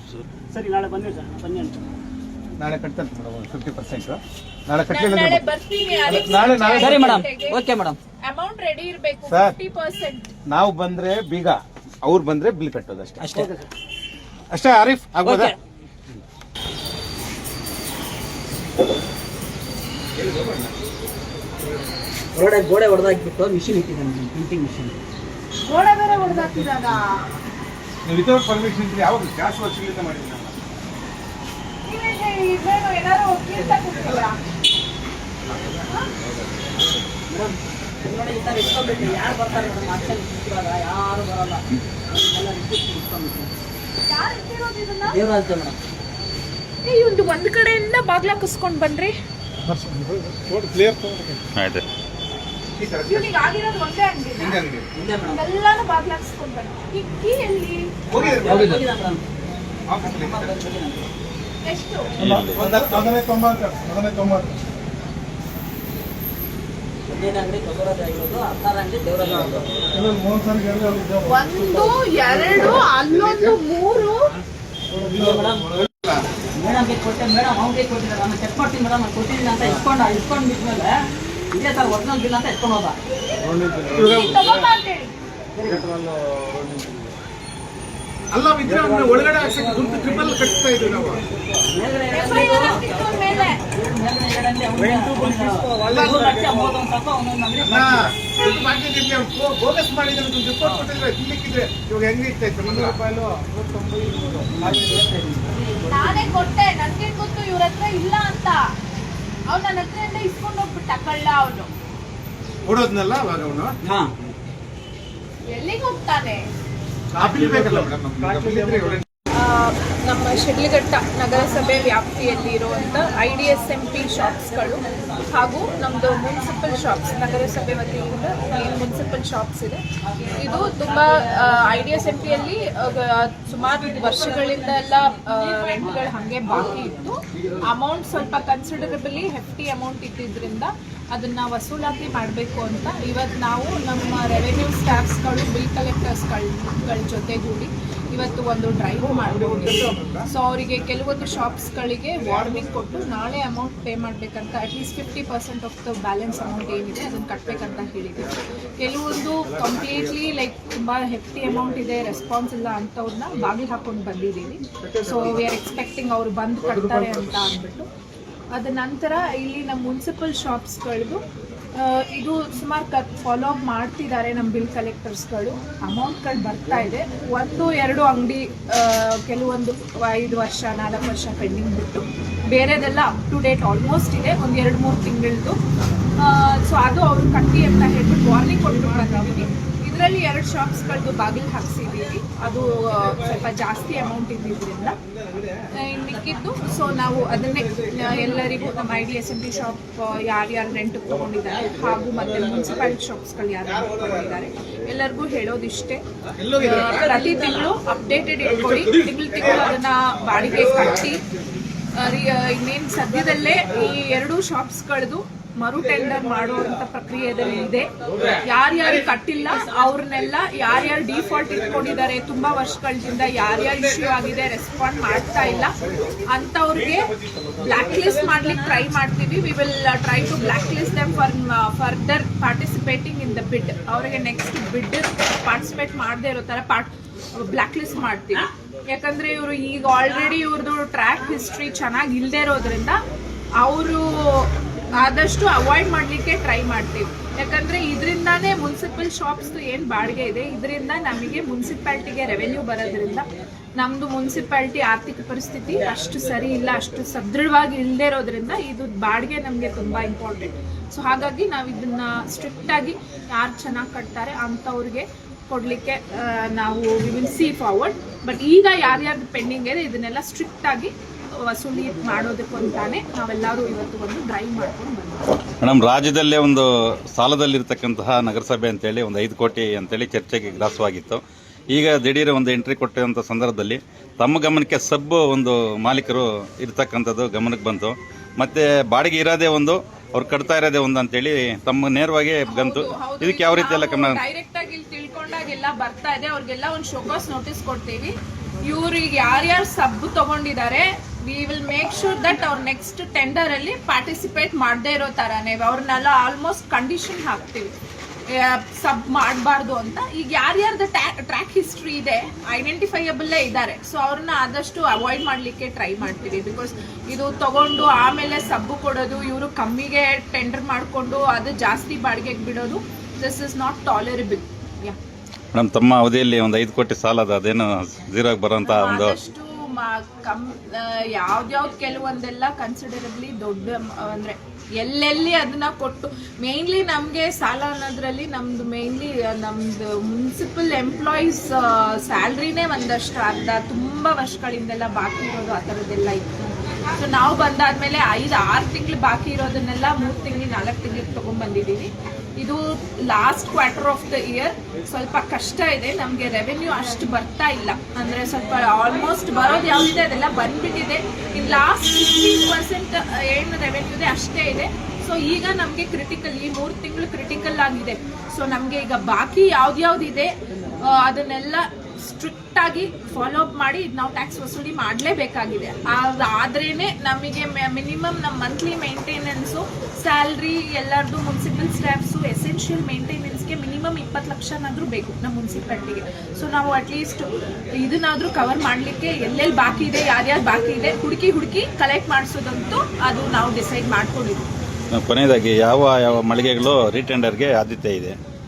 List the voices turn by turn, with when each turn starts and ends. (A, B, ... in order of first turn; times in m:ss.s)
0:00.5-0:01.8 A
0:02.6-0:05.4 B
0:04.9-0:07.6 C
0:06.0-0:07.1 B
0:06.8-0:08.0 D
0:08.2-0:10.3 C
0:09.3-0:09.5 B
0:10.5-0:13.4 B
0:13.2-0:13.5 D
0:14.5-0:15.5 B
0:15.2-0:15.6 D
0:20.2-0:20.7 B
0:22.3-0:24.9 D
0:25.6-0:27.1 C
0:28.0-0:30.5 B
0:31.8-0:34.4 C
0:35.5-0:36.7 B
0:37.3-0:43.5 D
0:44.0-0:45.2 C
0:45.1-0:45.8 D
0:46.8-0:49.1 C
0:49.8-0:51.4 B
0:51.6-0:51.8 E
0:52.7-0:53.3 B
0:53.1-0:54.6 C
0:54.4-0:54.9 B
0:54.9-0:55.4 D
0:55.2-0:57.9 C
0:58.1-0:58.9 B
0:58.1-0:59.2 D
0:59.9-1:00.6 B
1:00.0-1:01.1 D
1:01.6-1:02.4 C
1:02.2-1:02.6 E
1:02.5-1:04.6 B
1:07.1-1:09.8 D
1:09.9-1:11.9 B
1:11.2-1:14.3 C
1:13.0-1:13.6 B
1:15.0-1:15.8 D
1:15.7-1:16.2 B
1:16.6-1:20.9 D
1:21.5-1:23.0 D
1:23.9-1:24.6 B
1:24.1-1:25.1 C
1:25.6-1:25.9 D
1:28.3-1:31.2 B
1:28.7-1:30.4 D
1:31.7-1:38.1 D
1:32.1-1:33.5 C
1:35.7-1:36.6 B
1:37.6-1:44.5 B
1:44.3-1:46.4 D
1:45.9-1:48.6 C
1:49.5-1:51.7 C
1:52.6-1:53.7 B
1:53.8-1:54.1 D
1:55.5-1:56.4 C
1:57.1-1:59.0 B
1:57.3-1:59.0 A
1:59.3-2:09.8 C
2:10.2-2:11.2 D
2:10.4-2:47.9 C
2:13.7-2:15.0 D
2:15.5-2:16.1 D
2:16.7-2:17.0 D
2:29.5-2:30.2 B
2:48.5-2:51.2 C
2:51.8-3:05.6 C
3:06.2-3:15.0 C
3:15.8-3:31.2 C
3:26.4-3:27.2 B
3:28.6-3:29.1 B
3:32.0-4:03.0 C
3:47.7-3:48.9 D
4:03.6-4:30.9 C
4:31.4-4:35.3 C
4:35.6-4:41.2 E
4:41.7-4:54.2 E
4:52.5-5:07.7 C
5:08.3-5:25.0 C
5:25.5-5:29.1 E
5:28.6-5:46.2 C
5:46.9-6:10.3 C
6:10.8-6:34.5 C
6:34.9-6:38.2 E